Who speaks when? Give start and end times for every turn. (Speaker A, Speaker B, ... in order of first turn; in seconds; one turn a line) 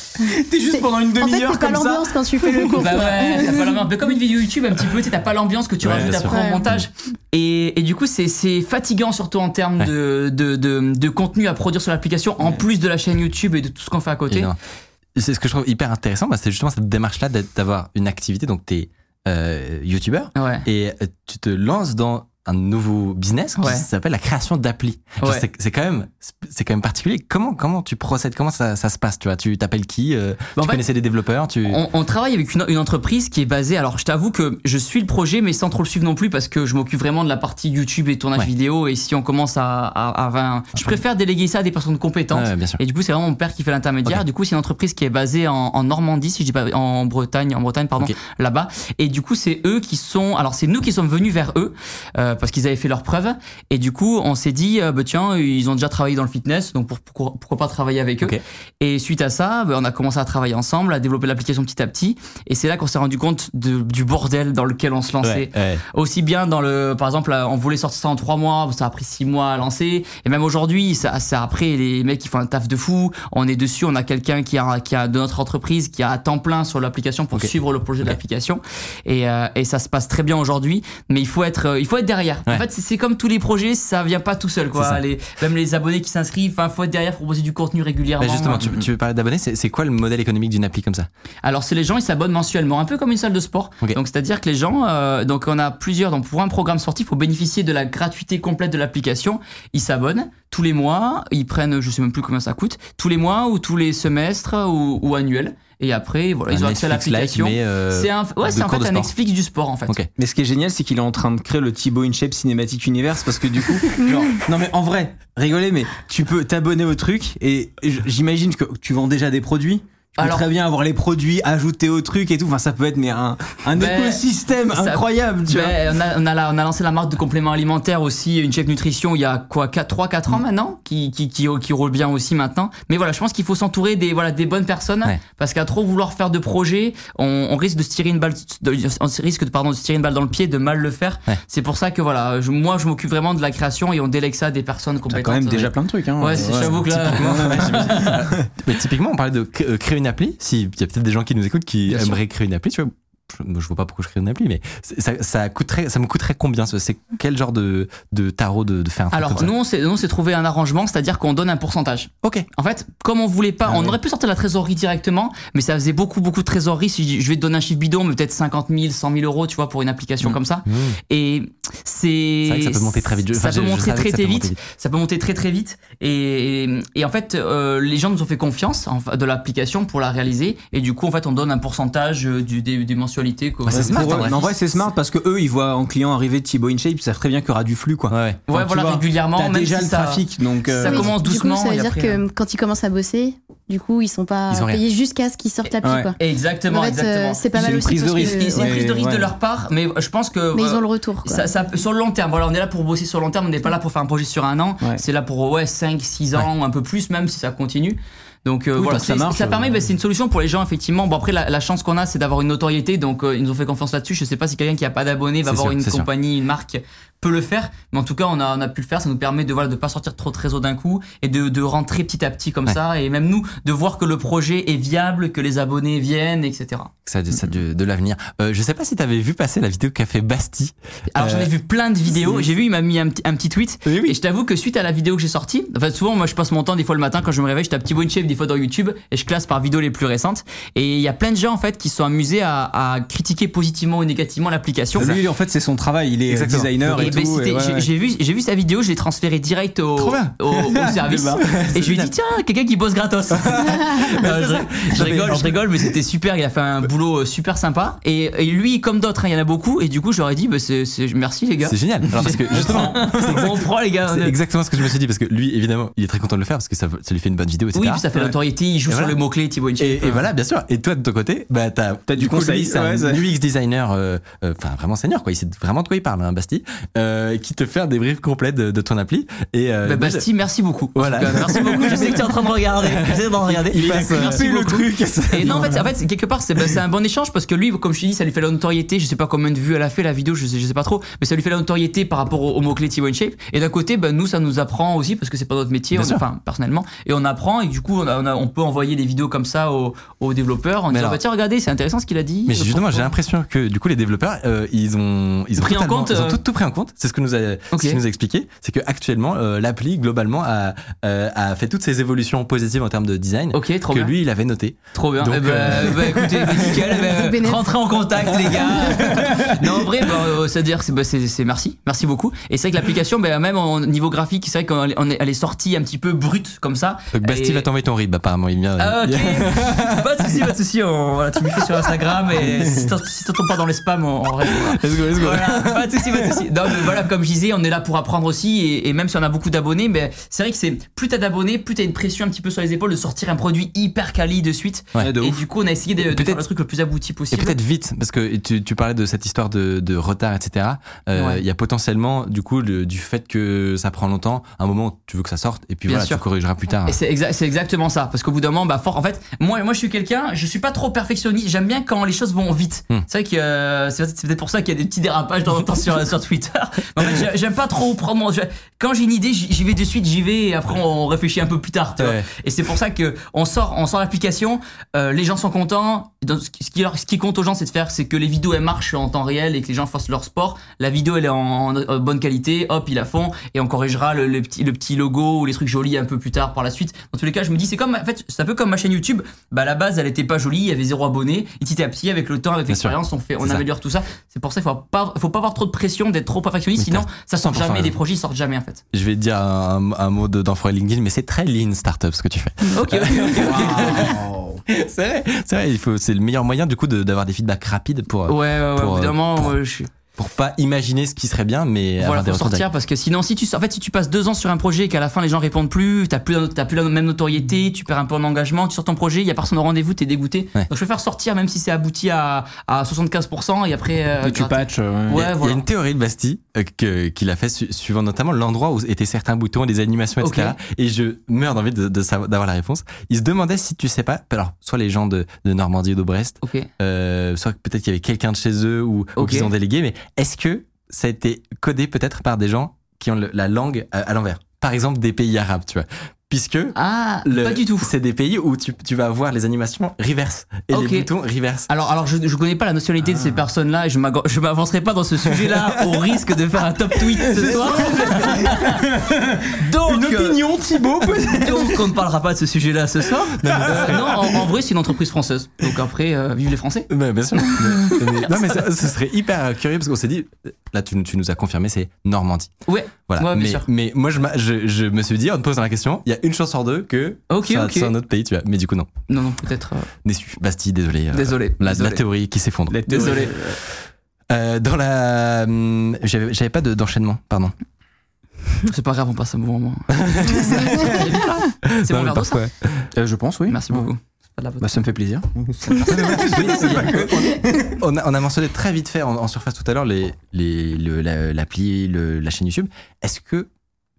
Speaker A: 0.2-3.3
Speaker B: 0.7-3.8
Speaker C: 2.8-14.5
Speaker D: 5.8-6.8
Speaker B: 6.1-6.7
Speaker D: 14.3-14.6
Speaker D: 15.2-31.8
Speaker C: 20.4-20.7
Speaker C: 23.6-23.9
Speaker C: 30.6-30.8
Speaker C: 31.7-88.7
Speaker D: 42.3-42.8
Speaker D: 65.2-65.8
Speaker D: 84.7-85.0
Speaker D: 88.2-91.1
Speaker A: 88.6-88.9
Speaker C: 91.4-110.0
Speaker D: 106.5-109.1
Speaker A: 110.2-125.8
Speaker C: 120.2-120.5
Speaker C: 123.8-148.2
Speaker A: 145.1-148.5
Speaker D: 146.3-159.5
Speaker C: 159.1-184.6
Speaker D: 170.2-171.0
Speaker D: 172.5-174.6
Speaker D: 183.7-184.4
Speaker A: 183.7-191.1
Speaker D: 188.1-188.4
Speaker C: 188.5-192.2
Speaker B: 190.8-196.2
Speaker D: 194.5-194.8
Speaker A: 195.8-196.1
Speaker C: 196.2-226.9
Speaker B: 196.7-198.9
Speaker A: 197.5-199.3
Speaker B: 200.5-201.5
Speaker A: 208.8-209.8
Speaker D: 215.4-216.1
Speaker D: 227.1-231.5
Speaker C: 231.1-245.1
Speaker D: 232.2-232.5
Speaker D: 233.8-234.2
Speaker A: 244.9-247.9
Speaker D: 245.0-245.3
Speaker D: 246.3-247.2
Speaker C: 246.9-264.4
Speaker D: 250.0-250.9
Speaker A: 250.6-251.5
Speaker D: 251.4-252.1
Speaker D: 253.4-255.9
Speaker D: 261.6-268.3
Speaker A: 262.5-263.5
Speaker C: 267.7-270.3
Speaker D: 268.9-269.2
Speaker D: 269.8-280.3
Speaker A: 272.1-273.2
Speaker C: 279.9-303.1
Speaker D: 280.9-284.7
Speaker A: 281.4-282.2
Speaker A: 283.7-285.9
Speaker D: 285.4-285.8
Speaker D: 295.9-296.2
Speaker D: 300.9-301.2
Speaker D: 302.5-317.0
Speaker C: 305.6-306.4
Speaker C: 307.7-308.0
Speaker C: 313.5-314.1
Speaker C: 314.9-327.7
Speaker B: 317.1-317.8
Speaker D: 327.1-330.4
Speaker C: 328.8-347.6
Speaker D: 334.7-336.4
Speaker A: 345.0-345.4
Speaker D: 346.0-346.4
Speaker D: 347.3-357.0
Speaker C: 351.1-351.4
Speaker C: 355.9-356.2
Speaker C: 356.9-398.8
Speaker D: 367.0-367.2
Speaker D: 372.0-372.3
Speaker D: 392.7-393.6
Speaker D: 396.8-398.0
Speaker D: 398.9-409.5
Speaker C: 402.6-404.2
Speaker A: 403.3-404.6
Speaker C: 408.3-409.9
Speaker D: 410.2-412.7
Speaker C: 412.0-425.6
Speaker A: 424.2-425.2
Speaker D: 425.1-451.7
Speaker C: 430.2-430.6
Speaker C: 436.4-436.7
Speaker C: 439.2-439.5
Speaker C: 446.8-447.9
Speaker C: 450.7-451.1
Speaker C: 451.7-458.8
Speaker A: 457.4-461.9
Speaker D: 457.4-458.5
Speaker C: 459.5-460.4
Speaker C: 461.1-466.9
Speaker D: 463.4-464.4
Speaker A: 463.4-464.4
Speaker D: 466.9-472.5
Speaker C: 467.4-468.4
Speaker C: 472.7-473.7
Speaker D: 473.1-478.9
Speaker C: 477.3-477.9
Speaker C: 479.1-479.9
Speaker D: 480.1-487.5
Speaker C: 481.1-482.0
Speaker A: 482.7-483.6
Speaker C: 482.9-483.3
Speaker C: 488.6-492.4
Speaker D: 490.0-491.1
Speaker A: 490.7-491.0
Speaker D: 491.7-492.9
Speaker A: 492.9-493.9
Speaker C: 493.5-494.8
Speaker A: 494.6-497.8
Speaker D: 495.8-503.5